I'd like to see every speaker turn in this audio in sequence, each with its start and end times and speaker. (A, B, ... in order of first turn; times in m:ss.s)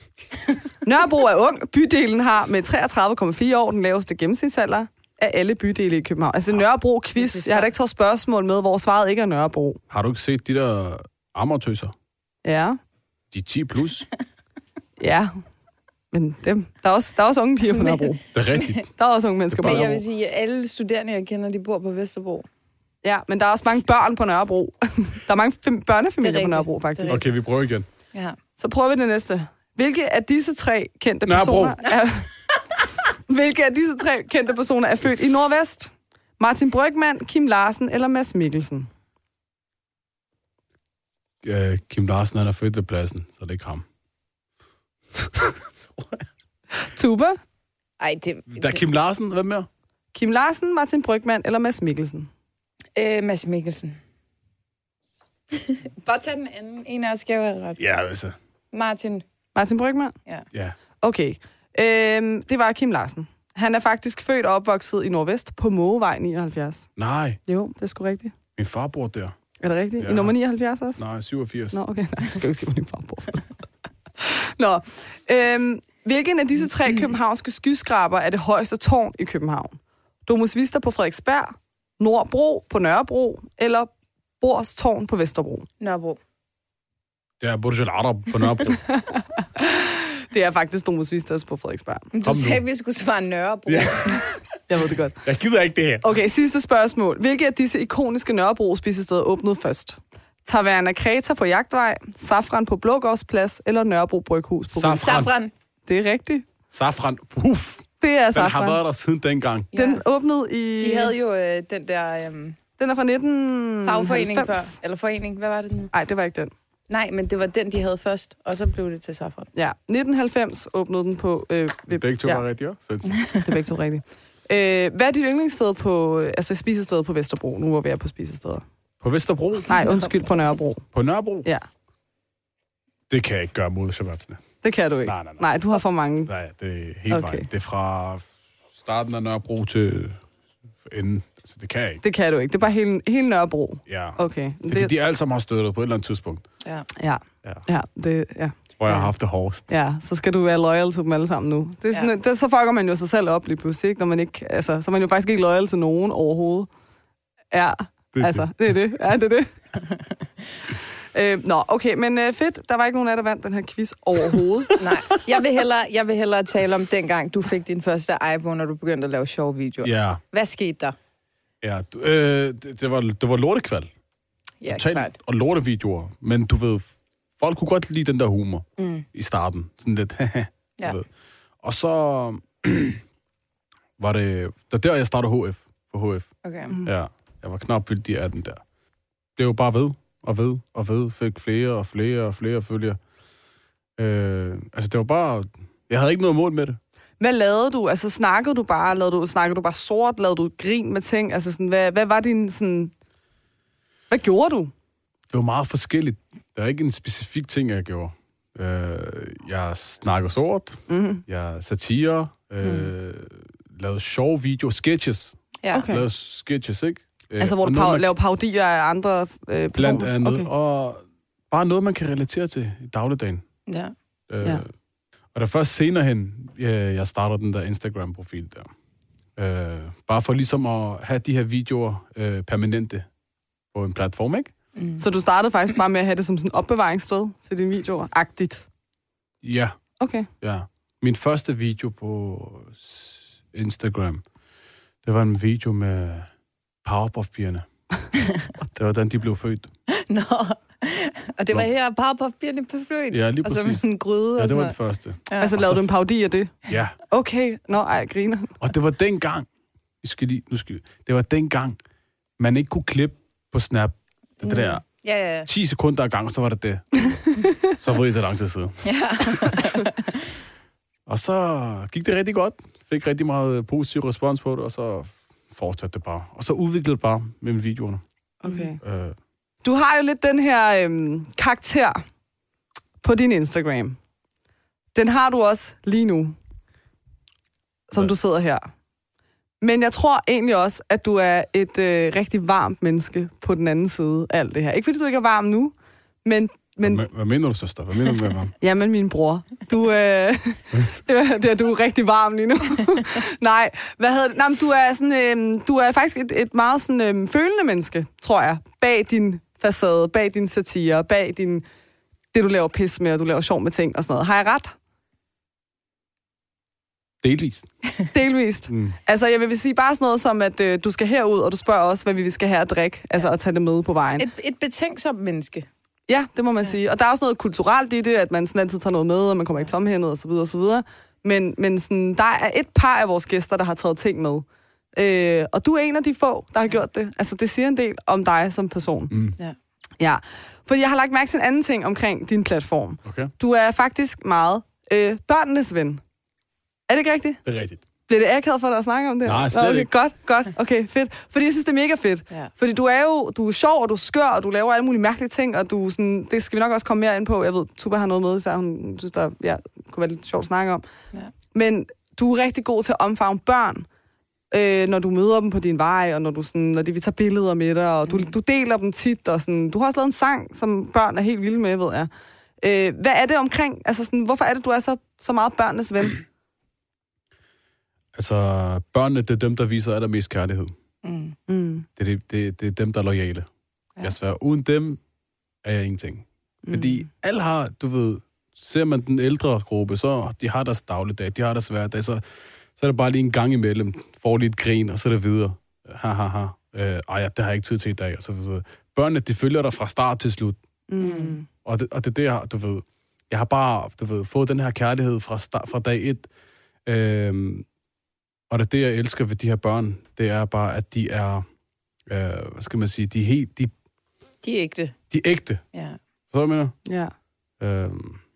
0:00.8-0:09.8 A
0:07.2-0:07.7 B
0:09.9-0:11.9 C
0:12.4-0:12.8 A
0:13.3-0:14.1 C
0:15.0-0:15.4 A
0:16.1-0:18.2 A
0:17.8-0:18.8 B
0:18.3-0:18.8 C
0:19.0-0:20.0 A
0:19.5-0:19.9 C
0:19.6-0:22.5 B
0:23.0-0:27.2 A
0:26.2-0:27.2 B
0:27.1-0:27.9 C
0:28.6-0:32.3 A
0:31.3-0:31.8 C
0:33.3-0:38.9 A
0:41.4-0:43.8 C
0:45.1-0:46.2 C
0:46.8-0:47.4 A
0:48.0-0:48.8 B
0:48.5-0:49.7 C
0:50.1-0:52.3 A
0:53.0-0:54.0 B
0:55.5-0:57.8 B
0:57.8-0:58.4 C
0:58.7-0:59.2 B
0:59.6-1:00.2 A
1:01.0-1:06.9 A
1:07.0-1:07.4 C
1:07.5-1:08.4 A
1:08.6-1:09.4 C
1:09.6-1:11.0 A
1:10.0-1:10.4 C
1:11.0-1:11.8 C
1:11.7-1:13.5 A
1:14.2-1:25.7 A
1:25.8-1:26.2 B
1:27.4-1:28.8 C
1:28.8-1:32.1 A
1:32.1-1:34.2 B
1:32.2-1:32.6 C
1:33.7-1:34.4 C
1:34.7-1:35.2 A
1:35.2-1:36.1 C
1:36.0-1:45.2 A
1:44.7-1:45.3 C
1:45.0-1:45.5 B
1:45.9-1:46.4 A
1:46.7-1:49.7 C
1:48.0-1:48.8 A
1:49.7-1:50.0 B
1:49.8-1:51.1 A
1:50.8-1:52.6 B
1:52.8-1:54.8 A
1:53.8-1:55.9 B
1:55.9-1:56.5 A
1:56.9-1:59.5 B
1:59.6-2:02.4 A
2:01.9-2:03.2 C
2:03.1-2:03.4 B
2:03.4-2:08.6 A
2:09.0-2:09.7 C
2:09.7-2:10.8 A
2:10.9-2:11.5 C
2:13.1-2:14.4 C
2:14.6-2:16.3 A
2:15.0-2:15.5 C
2:16.3-2:20.2 C
2:17.1-2:17.5 A
2:20.8-2:22.0 C
2:22.0-2:24.9 A
2:23.9-2:26.4 C
2:27.0-2:29.1 A
2:28.8-2:29.7 C
2:29.7-2:36.7 A
2:37.5-2:39.5 A
2:38.1-2:38.5 C
2:41.1-2:44.8 A
2:44.8-2:51.0 B
2:49.8-2:50.2 C
2:51.6-2:53.9 C
2:54.6-2:55.1 B
2:54.7-3:01.1 C
2:58.8-2:59.1 B
3:01.6-3:03.0 C
3:04.0-3:06.3 C
3:06.4-3:06.7 B
3:06.8-3:08.6 C
3:09.4-3:13.0 C
3:14.0-3:16.8 C
3:17.2-3:22.9 A
3:24.1-3:24.7 A
3:25.3-3:35.4 C
3:30.9-3:31.2 A
3:32.6-3:32.9 B
3:35.6-3:35.9 B
3:35.7-3:36.0 A
3:35.9-3:38.1 C
3:37.4-3:40.5 A
3:39.8-3:43.4 C
3:43.7-3:43.9 B
3:44.3-3:44.7 C
3:45.3-3:48.7 C
3:49.4-3:53.1 C
3:53.7-3:54.5 C
3:54.8-3:55.0 B
3:55.0-3:58.6 A
3:59.4-3:59.8 C
4:00.0-4:00.3 A
4:00.4-4:04.2 C
4:05.0-4:06.3 C
4:06.8-4:07.7 C
4:08.7-4:09.7 C
4:09.9-4:14.8 B
4:13.1-4:15.8 C
4:15.3-4:15.6 B
4:15.4-4:16.5 A
4:16.7-4:17.0 C
4:17.1-4:18.6 A
4:18.6-4:19.5 C
4:20.0-4:21.8 C
4:22.4-4:24.8 C
4:24.4-4:25.5 B
4:25.5-4:28.8 C
4:28.8-4:30.2 B
4:31.1-4:38.0 C
4:38.4-4:38.8 A
4:38.8-4:39.2 C
4:39.6-4:42.0 A
4:43.0-4:44.0 A
4:44.9-4:46.4 A
4:47.9-4:48.7 A
4:49.6-4:57.0 A
4:56.8-4:58.5 C
4:58.6-5:11.6 A
5:12.3-5:14.8 A
5:17.2-5:17.7 C
5:18.1-5:24.3 A
5:18.7-5:19.0 C
5:24.2-5:25.7 B
5:26.1-5:39.1 A
5:39.1-5:39.4 C
5:40.0-5:46.0 A
5:43.0-5:43.3 C
5:46.9-5:47.4 A
5:47.4-5:47.8 C
5:48.1-6:00.8 A
5:49.2-5:49.9 C
6:01.5-6:03.9 A
6:04.5-6:12.1 A
6:12.6-6:16.2 A
6:18.2-6:20.7 C
6:21.0-6:21.4 B
6:21.5-6:21.9 A
6:22.0-6:23.5 C
6:24.0-6:25.0 C
6:25.6-6:32.2 C
6:26.7-6:27.0 A
6:32.8-6:40.6 C
6:40.9-6:41.5 A
6:41.0-6:41.4 B
6:41.6-6:46.3 C
6:46.9-6:47.7 C
6:48.5-6:51.4 C
6:52.1-6:53.7 C
6:54.4-6:55.0 B
6:55.1-6:55.6 C
6:56.3-6:56.8 C
6:56.9-6:57.1 A
6:57.6-6:58.2 C